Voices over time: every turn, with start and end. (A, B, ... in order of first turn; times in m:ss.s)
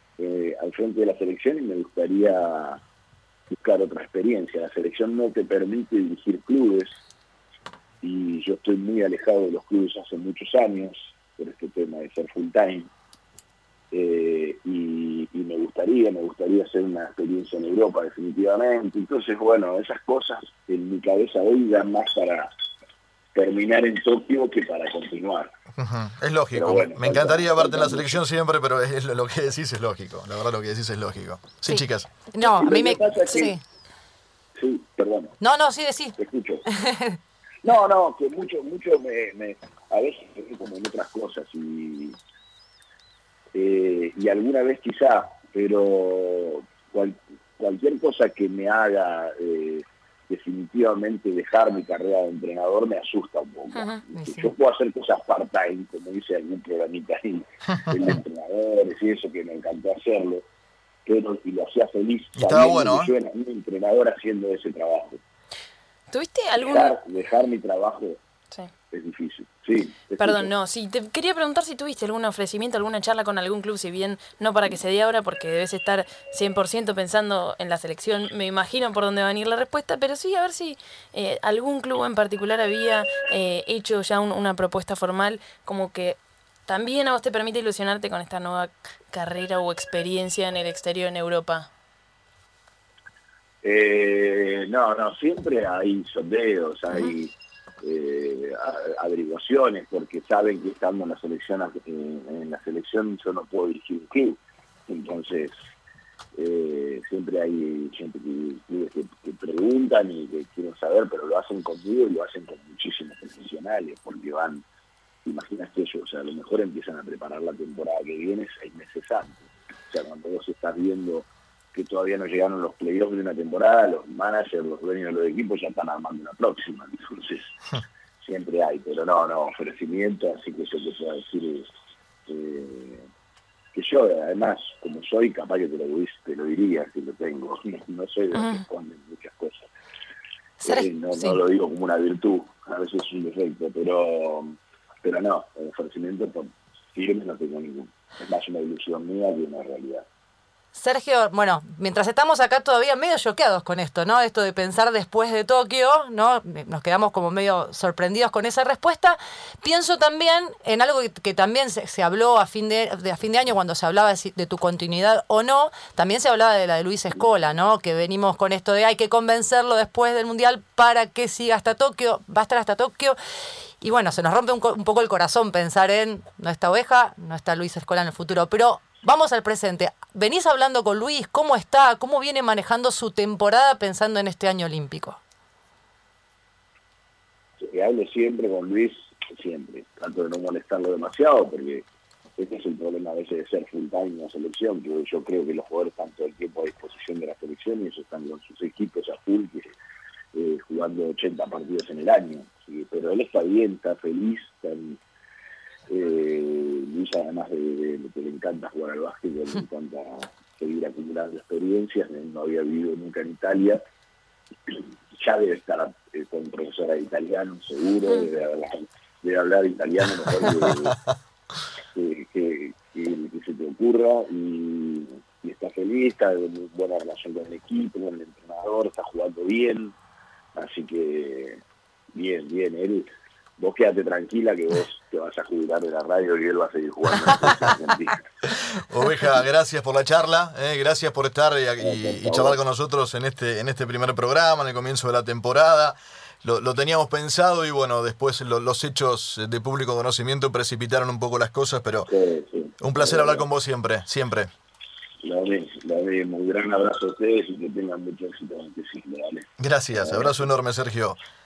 0:00.2-0:02.8 A
0:03.5-0:06.9 A
0:08.0-0:12.9 A
0:13.9-0:22.5 A
0:23.3-0:25.5 A
0:25.8-0:32.1 B
0:26.5-0:28.2 A
0:31.6-0:33.6 C
0:32.4-0:33.5 A
0:34.6-0:35.4 A
0:35.4-0:37.2 C
0:36.2-0:36.6 A
0:37.6-0:42.2 A
0:43.5-1:00.4 A
0:53.7-0:54.0 D
0:54.1-0:54.5 C
1:01.0-1:05.2 A
1:02.4-1:03.1 B
1:06.1-1:06.9 D
1:06.6-1:08.2 A
1:08.9-1:10.5 A
1:10.2-1:31.7 D
1:33.6-1:45.5 A
1:46.3-1:54.6 A
1:55.2-2:07.5 A
2:08.2-2:11.7 A
2:12.3-2:13.0 A
2:13.7-2:19.7 A
2:18.3-2:18.6 D
2:20.6-2:21.4 C
2:20.6-2:30.0 A
2:30.7-2:53.2 C
2:53.8-3:05.2 C
3:07.6-3:11.8 A
3:12.4-3:19.7 A
3:20.3-3:25.0 A
3:25.9-3:33.8 A
3:34.7-3:41.0 A
3:41.9-3:50.0 A
3:50.5-3:51.6 A
3:52.1-3:58.2 A
3:58.5-4:12.1 B
4:01.8-4:02.6 A
4:12.0-4:13.4 A
4:12.8-4:14.5 B
4:15.2-4:20.4 A
4:19.6-4:21.2 B